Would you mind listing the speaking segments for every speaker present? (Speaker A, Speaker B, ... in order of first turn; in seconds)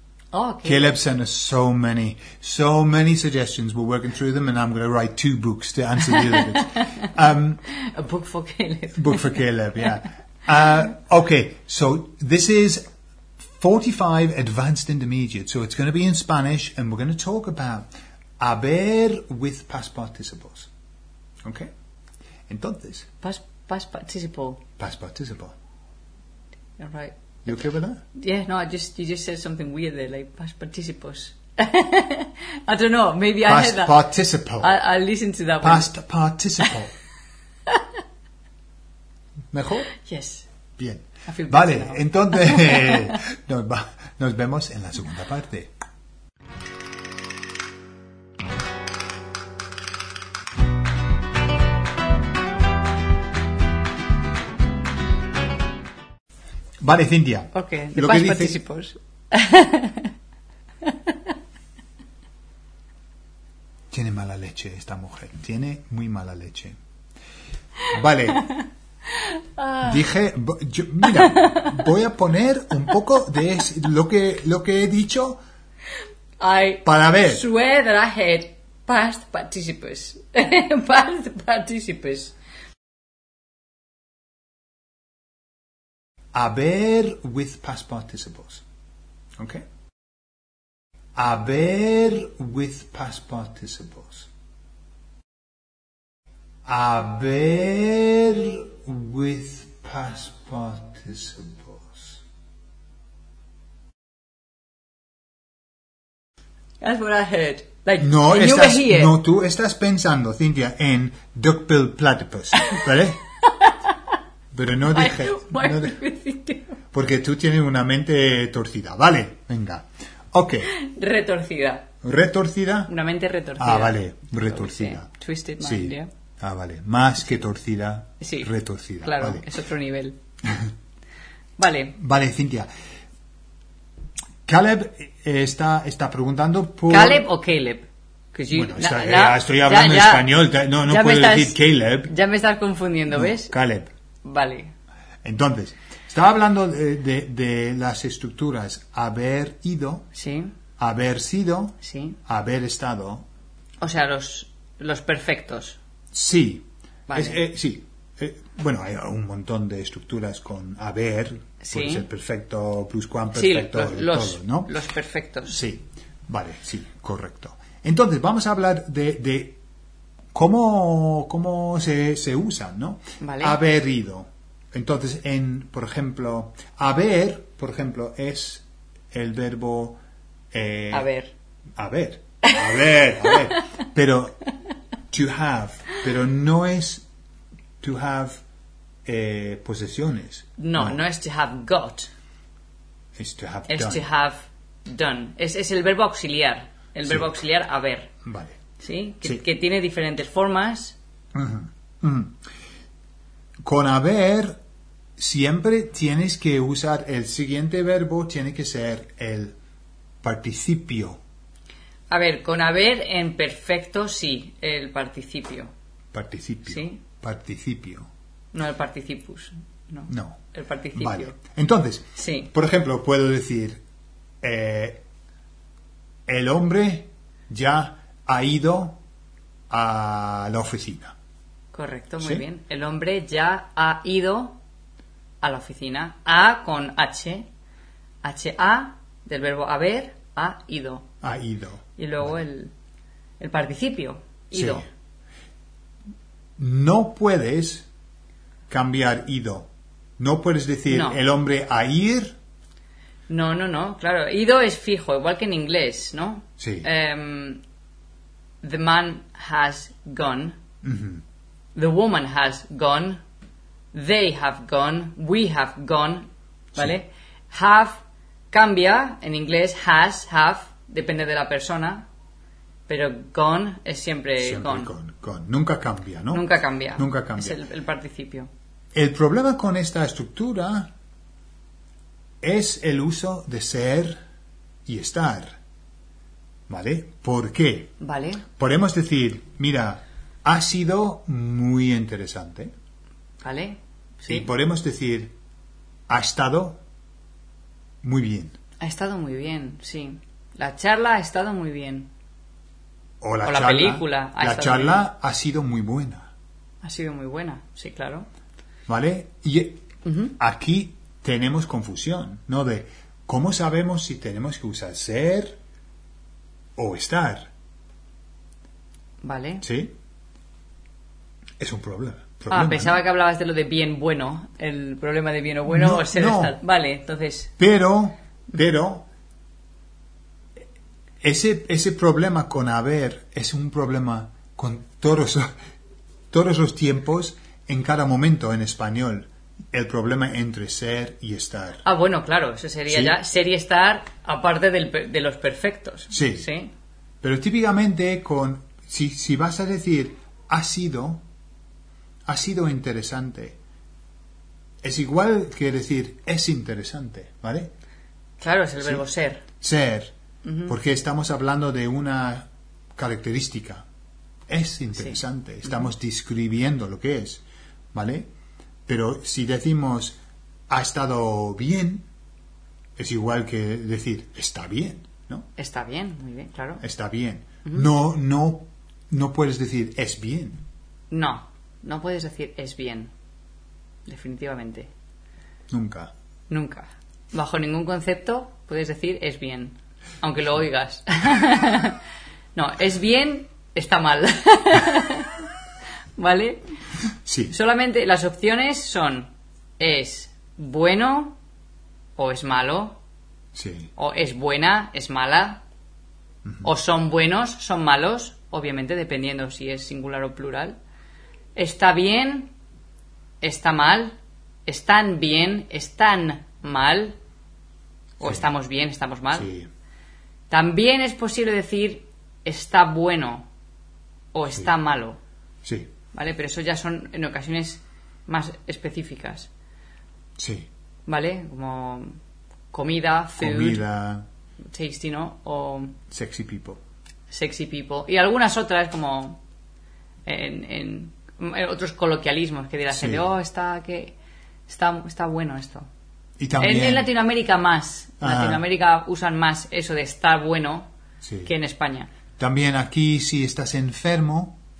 Speaker A: 0.3-0.9, 6.2-7.1, 7.7-9.4, 23.2-24.6, 26.8-27.1, 28.1-34.0, 34.6-35.9, 40.0-40.5, 41.3-43.2, 57.5-60.1, 60.8-61.1, 69.1-70.0, 71.2-71.8, 76.4-82.3, 106.8-109.2, 114.9-116.8, 120.7-121.9, 122.9-126.1, 128.2-128.5, 129.0-130.2, 131.6-131.9, 136.9-140.3, 140.8-143.5, 144.2-144.7, 150.1-150.5, 151.8-152.2, 153.8-155.8, 157.1-157.4, 161.6-162.1, 163.3-165.6, 173.2-173.6, 180.9-181.3, 182.4-183.6, 190.6-192.1, 193.7-198.1, 198.8-201.0, 212.1-215.7, 216.7-217.0, 218.5-221.3, 222.2-222.5, 231.7-234.6, 235.4-237.5, 238.2-241.1, 242.0-242.7, 243.4-244.8, 250.9-251.2, 253.3-257.6, 258.6-260.6, 261.8-263.2, 263.9-272.1, 272.9-274.9, 276.3-278.5, 288.0-288.4, 293.4-294.5, 298.8-302.1, 303.4-305.0, 306.8-308.3, 310.1-310.4, 319.2-319.6, 322.5-327.5, 341.8-346.7, 358.4-359.4, 360.4-360.8, 375.6-376.8, 381.1-383.1, 384.1-384.9, 386.5-392.0, 392.6-395.4, 396.2-396.6, 397.5-401.4, 402.2-403.0, 404.0-405.6, 406.6-410.8, 411.6-412.5, 413.4-414.2, 414.7-417.2, 418.2-419.5, 420.5-423.5, 424.3-425.2, 426.1-429.5, 431.1-432.2, 432.7-433.8, 434.7-436.0, 437.3-439.4, 440.2-444.1, 444.7-445.9, 446.6-450.9, 451.5-452.1
Speaker B: 0.6-7.6, 8.9-12.8, 13.5-17.9, 18.4-20.7, 21.4-21.7, 22.5-23.1, 24.8-25.6, 27.4-28.0, 33.5-34.7, 35.6-37.0, 39.5-39.9, 40.8-45.7, 56.8-58.6, 63.9-66.8, 67.8-68.5, 69.8-75.4, 76.8-77.4, 86.3-88.6, 89.4-89.6, 91.2-94.3, 96.7-102.2, 108.0-113.2, 114.5-116.0, 116.9-120.7, 122.0-122.9, 123.6-125.1, 125.6-129.4, 131.9-132.7, 134.5-137.2, 138.5-142.1, 143.1-143.9, 145.2-150.1, 150.8-151.7, 152.2-153.2, 156.1-164.7, 165.5-169.6, 170.3-180.0, 180.5-181.1, 181.8-184.4, 185.1-187.1, 187.8-188.4, 189.1-191.0, 193.2-194.0, 197.1-197.4, 198.2-198.6, 201.3-202.4, 203.6-204.6, 205.2-209.6, 210.2-211.2, 216.1-218.1, 220.1-220.4, 220.9-223.8, 224.4-225.0, 226.3-229.0, 229.7-231.1, 241.2-242.3, 244.5-244.8, 246.6-247.9, 248.7-252.3, 256.6-256.9, 260.8-261.2, 274.4-277.6, 278.9-280.9, 282.4-284.2, 284.9-285.6, 286.7-287.9, 288.6-292.7, 294.3-295.3, 296.1-296.8, 298.0-298.6, 303.2-306.3, 308.9-309.8, 310.4-315.6, 316.8-317.5, 319.6-319.9, 321.6-323.0, 325.7-326.6, 327.6-329.1, 331.2-335.5, 336.3-341.8, 342.9-343.2, 346.1-346.5, 347.2-351.2, 352.3-353.6, 354.8-357.7, 359.6-360.1, 360.7-363.9, 364.5-367.4, 367.9-368.3, 368.9-370.2, 370.7-372.1, 373.0-375.5, 376.8-380.6, 385.7-386.1, 397.2-397.6, 403.6-403.9, 418.2-418.5, 419.3-419.7, 425.6-425.9, 430.4-430.7, 433.4-434.2, 436.1-436.8, 442.9-443.2, 446.4-447.1, 448.2-448.6, 451.2-451.5, 452.4-454.6